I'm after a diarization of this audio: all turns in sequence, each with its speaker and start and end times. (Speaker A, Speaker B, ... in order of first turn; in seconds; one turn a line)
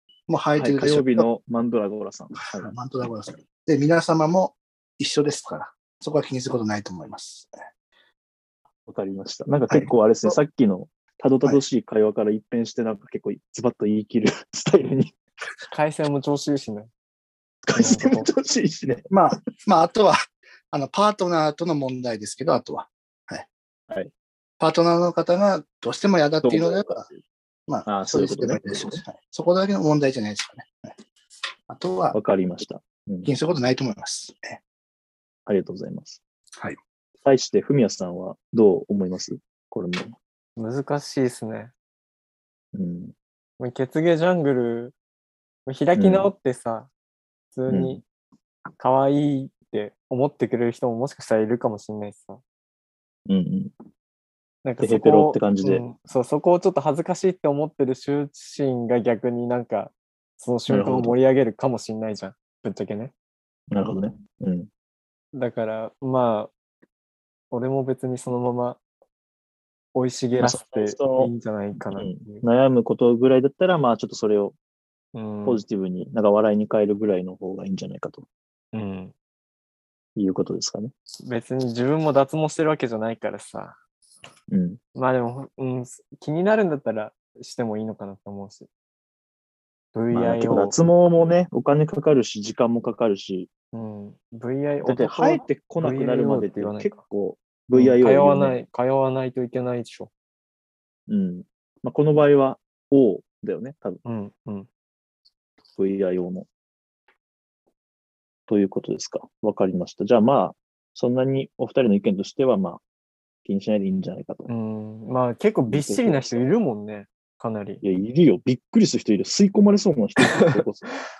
Speaker A: 0.3-1.2
Speaker B: 0.6-2.7
Speaker A: 2.4-7.5
Speaker B: 8.9-15.2
Speaker A: 9.7-10.4
Speaker C: 15.7-16.9
Speaker B: 17.6-19.1
Speaker C: 17.7-18.3
Speaker A: 19.1-20.2
Speaker A: 20.7-23.4
Speaker A: 24.6-27.1
Speaker B: 26.4-27.2
Speaker A: 27.7-30.9
Speaker B: 27.8-29.0
Speaker A: 31.7-32.1
Speaker B: 32.1-33.3
Speaker A: 33.2-34.6
Speaker B: 35.5-36.2
Speaker B: 37.2-40.1
Speaker C: 40.6-41.7
Speaker B: 42.7-43.1
Speaker C: 43.6-44.9
Speaker C: 45.6-46.9
Speaker B: 45.9-46.3
Speaker C: 47.5-48.0
Speaker B: 47.7-48.0
Speaker C: 48.8-52.4
Speaker B: 53.3-53.7
Speaker C: 54.6-63.1
Speaker B: 54.8-55.8
Speaker B: 60.7-61.2
Speaker B: 63.7-64.7
Speaker C: 65.3-66.5
Speaker C: 67.5-68.8
Speaker C: 69.9-72.4
Speaker B: 70.4-71.3
Speaker B: 71.9-74.5
Speaker C: 75.1-75.6
Speaker B: 75.4-78.2
Speaker C: 78.7-79.1
Speaker B: 80.2-80.9
Speaker C: 81.2-83.8
Speaker B: 84.5-84.8
Speaker C: 84.9-88.7
Speaker C: 89.9-90.8
Speaker B: 90.1-93.5
Speaker C: 93.7-97.0
Speaker B: 94.8-98.6
Speaker C: 97.7-100.1
Speaker B: 101.1-104.0
Speaker C: 104.0-104.7
Speaker B: 105.8-106.5
Speaker B: 108.5-112.8
Speaker B: 113.4-114.5
Speaker C: 114.5-117.8
Speaker B: 115.7-116.5
Speaker B: 117.8-120.9
Speaker C: 120.2-120.5